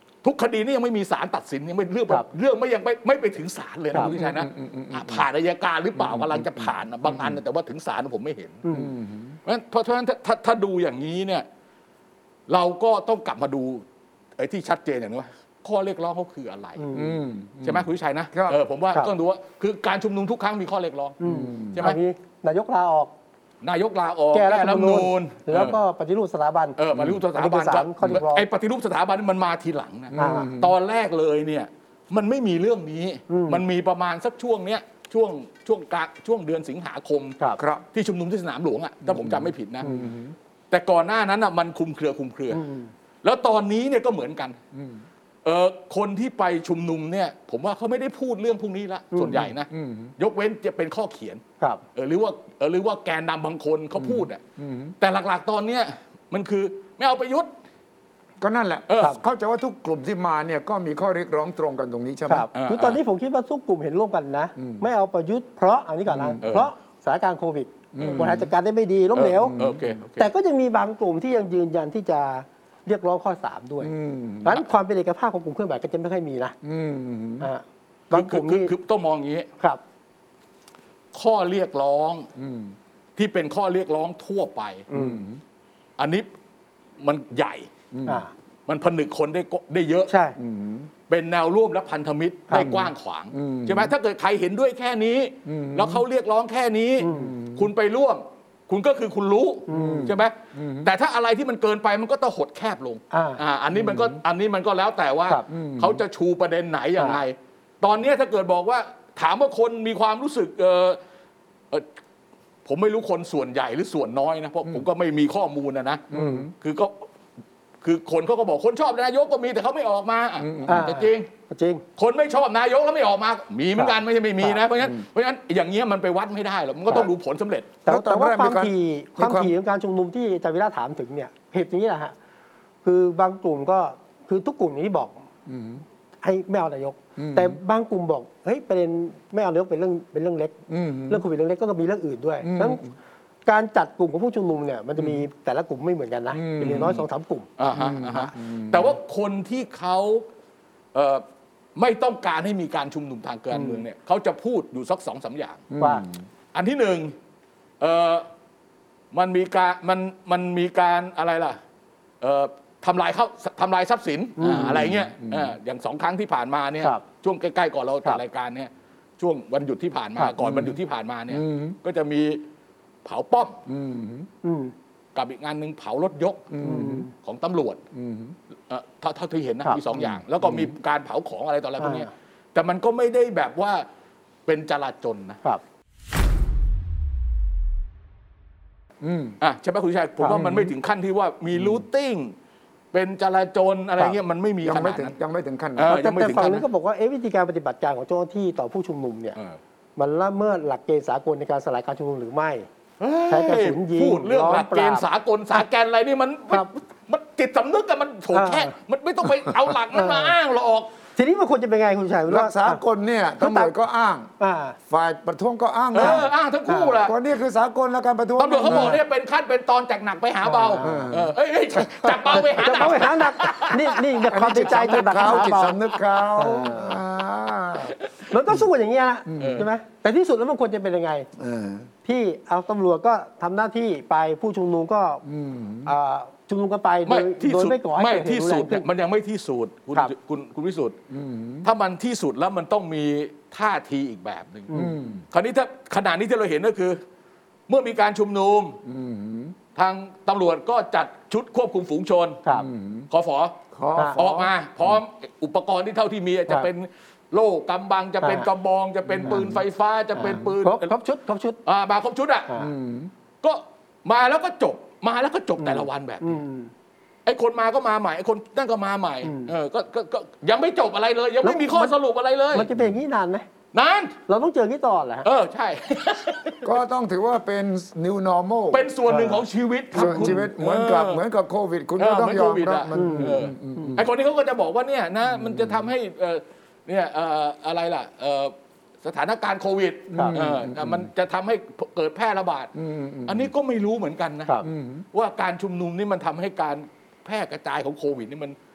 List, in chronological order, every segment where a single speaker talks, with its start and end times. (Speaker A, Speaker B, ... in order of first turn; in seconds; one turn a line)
Speaker A: 0.2-8.6
Speaker B: 3.9-5.2
Speaker B: 6.0-7.4
Speaker C: 8.6-8.9
Speaker B: 8.7-9.4
Speaker A: 9.4-11.4
Speaker A: 12.5-13.8
Speaker A: 14.4-16.8
Speaker C: 16.8-17.2
Speaker B: 16.9-18.6
Speaker A: 17.6-21.2
Speaker C: 21.2-23.1
Speaker B: 21.2-21.8
Speaker A: 23.6-25.8
Speaker C: 24.3-26.8
Speaker A: 26.8-37.4
Speaker B: 26.9-27.2
Speaker C: 27.3-28.4
Speaker B: 30.1-30.7
Speaker C: 30.1-30.5
Speaker C: 33.3-33.6
Speaker B: 37.6-37.8
Speaker A: 37.9-40.0
Speaker B: 39.0-40.3
Speaker C: 39.8-40.1
Speaker A: 40.7-42.6
Speaker C: 42.5-42.9
Speaker A: 43.2-44.6
Speaker B: 44.7-45.0
Speaker A: 45.4-51.4
Speaker C: 49.1-49.5
Speaker B: 49.7-50.1
Speaker A: 51.9-54.4
Speaker B: 54.0-54.9
Speaker A: 55.0-57.5
Speaker B: 58.4-62.5
Speaker A: 58.9-59.2
Speaker C: 62.3-69.5
Speaker A: 62.5-63.0
Speaker B: 64.6-64.8
Speaker B: 66.1-66.4
Speaker A: 66.4-66.7
Speaker B: 67.9-68.5
Speaker A: 68.0-68.3
Speaker A: 69.1-70.3
Speaker B: 69.4-69.9
Speaker C: 70.2-76.5
Speaker B: 73.8-74.6
Speaker B: 76.6-77.5
Speaker C: 77.4-78.7
Speaker A: 78.1-79.5
Speaker A: 81.1-82.3
Speaker B: 82.4-82.7
Speaker A: 83.2-84.9
Speaker C: 84.9-85.2
Speaker B: 84.9-85.4
Speaker A: 86.0-86.3
Speaker A: 87.0-87.7
Speaker B: 87.9-88.2
Speaker C: 88.0-88.3
Speaker A: 88.7-90.1
Speaker C: 90.1-90.4
Speaker B: 90.4-90.9
Speaker A: 91.1-111.0
Speaker C: 92.5-92.8
Speaker B: 92.5-93.9
Speaker B: 95.5-96.0
Speaker C: 97.0-97.3
Speaker B: 97.1-97.7
Speaker C: 99.7-100.1
Speaker B: 99.7-100.9
Speaker C: 103.1-103.4
Speaker B: 103.7-104.2
Speaker B: 105.5-106.0
Speaker A: 112.6-117.0
Speaker B: 116.1-116.5
Speaker C: 116.1-116.5
Speaker A: 117.8-121.3
Speaker B: 120.4-120.9
Speaker C: 120.7-121.8
Speaker A: 122.0-127.7
Speaker C: 123.8-124.6
Speaker C: 127.8-132.1
Speaker B: 127.8-129.5
Speaker C: 132.8-135.2
Speaker B: 135.5-135.8
Speaker C: 136.2-140.5
Speaker B: 137.2-137.6
Speaker B: 140.7-141.2
Speaker C: 141.1-142.8
Speaker B: 142.4-142.9
Speaker C: 143.4-147.5
Speaker B: 146.3-147.0
Speaker A: 147.6-150.2
Speaker B: 147.7-148.9
Speaker A: 150.9-151.2
Speaker A: 151.8-155.7
Speaker C: 153.5-153.8
Speaker B: 155.7-156.2
Speaker C: 155.8-156.1
Speaker A: 156.5-157.1
Speaker A: 157.8-158.3
Speaker A: 159.1-161.6
Speaker A: 162.2-172.4
Speaker C: 164.4-164.8
Speaker B: 164.4-165.5
Speaker B: 170.4-170.8
Speaker B: 171.3-171.8
Speaker A: 173.0-173.6
Speaker B: 173.7-174.3
Speaker C: 174.4-174.7
Speaker A: 175.1-176.6
Speaker B: 176.5-177.1
Speaker C: 176.6-177.1
Speaker A: 177.1-177.8
Speaker B: 177.9-178.3
Speaker A: 178.7-183.8
Speaker C: 181.8-182.1
Speaker A: 184.4-185.4
Speaker B: 189.0-189.4
Speaker A: 189.4-192.3
Speaker B: 190.3-190.7
Speaker A: 192.9-195.2
Speaker B: 194.6-195.9
Speaker A: 195.8-196.7
Speaker C: 195.9-199.4
Speaker C: 200.0-202.7
Speaker A: 203.0-210.9
Speaker C: 203.3-205.0
Speaker C: 208.3-208.7
Speaker C: 209.9-210.3
Speaker C: 211.2-212.8
Speaker B: 212.3-214.3
Speaker C: 213.4-213.7
Speaker C: 214.4-214.8
Speaker B: 214.9-216.3
Speaker A: 215.9-217.2
Speaker C: 216.0-217.0
Speaker B: 217.0-219.0
Speaker A: 218.4-225.9
Speaker C: 218.7-219.0
Speaker C: 220.4-221.1
Speaker B: 220.8-222.8
Speaker C: 222.3-225.8
Speaker B: 224.3-228.0
Speaker C: 226.4-227.0
Speaker A: 227.8-228.1
Speaker C: 228.3-231.3
Speaker B: 229.3-229.6
Speaker A: 229.4-229.7
Speaker B: 231.4-231.9
Speaker C: 232.0-235.2
Speaker B: 235.2-235.9
Speaker C: 235.8-238.8
Speaker A: 237.1-241.0
Speaker B: 241.1-241.7
Speaker A: 241.6-244.7
Speaker C: 244.7-244.9
Speaker B: 244.7-245.2
Speaker A: 245.3-247.0
Speaker A: 247.7-248.8
Speaker B: 248.8-249.6
Speaker A: 249.7-252.4
Speaker B: 252.5-253.1
Speaker A: 253.1-253.6
Speaker B: 253.7-254.5
Speaker A: 254.1-260.9
Speaker C: 258.2-258.5
Speaker C: 259.2-259.6
Speaker C: 260.1-261.6
Speaker A: 261.6-262.5
Speaker B: 262.6-263.1
Speaker A: 263.4-266.4
Speaker C: 265.6-266.7
Speaker A: 267.2-272.7
Speaker C: 269.2-269.5
Speaker C: 271.4-271.9
Speaker C: 272.5-273.5
Speaker A: 273.7-274.1
Speaker C: 274.3-275.3
Speaker A: 275.2-276.7
Speaker B: 276.6-278.9
Speaker A: 278.7-281.2
Speaker C: 279.1-280.4
Speaker B: 279.9-284.1
Speaker A: 282.0-292.7
Speaker C: 282.9-284.0
Speaker B: 285.3-285.8
Speaker B: 290.1-291.1
Speaker B: 292.7-293.5
Speaker A: 293.2-294.6
Speaker B: 294.6-295.1
Speaker A: 295.1-298.6